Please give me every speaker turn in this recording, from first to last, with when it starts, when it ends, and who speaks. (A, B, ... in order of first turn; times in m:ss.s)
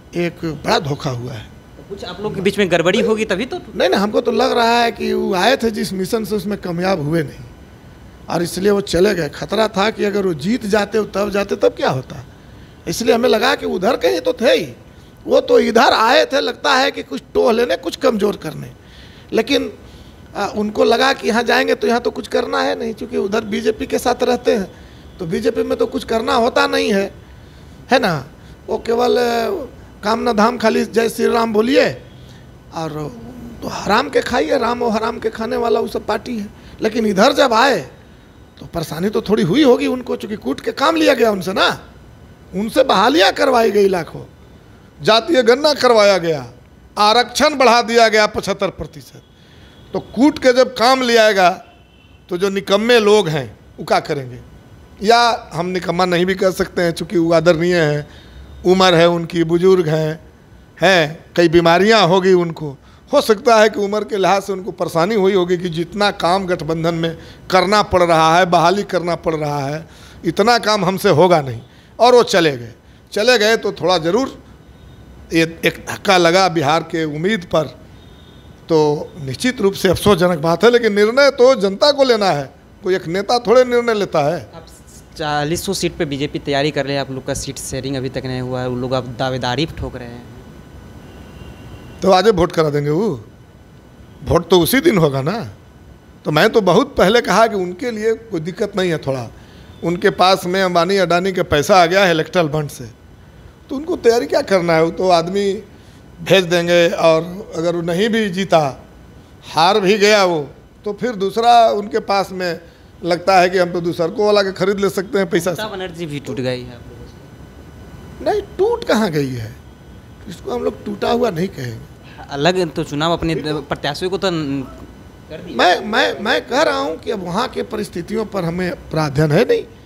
0:00.1-0:01.5 A
0:01.8-0:03.7 B
0:03.7-0:07.5 A
0:08.3-0:12.2 A
0:12.8-0:18.7 A
0:19.3-0:19.7 A
0:20.3-0:27.1 A
0:27.9-0:32.0 A
0:32.7-0:37.9 A
0:38.6-0:41.8 A
0:42.5-0:44.3 A
0:45.0-0:49.2 A
0:49.9-0:51.6 A
0:52.3-0:54.4 A
0:55.0-0:58.1 A
0:58.6-1:00.2 A
1:00.8-1:14.4 A
1:15.3-1:17.7 A
1:18.7-1:24.5 A
1:24.5-1:30.5 B
1:32.0-1:33.2 A
1:34.2-1:35.5 A
1:36.2-1:39.3 A
1:39.8-1:42.9 A
1:43.7-1:45.6 A
1:46.2-1:48.8 A
1:49.4-1:55.6 A
1:55.3-1:57.3 B
1:58.2-1:59.6 A
2:00.2-2:01.9 A
2:02.2-2:06.9 B
2:03.3-2:03.6 A
2:05.5-2:09.7 A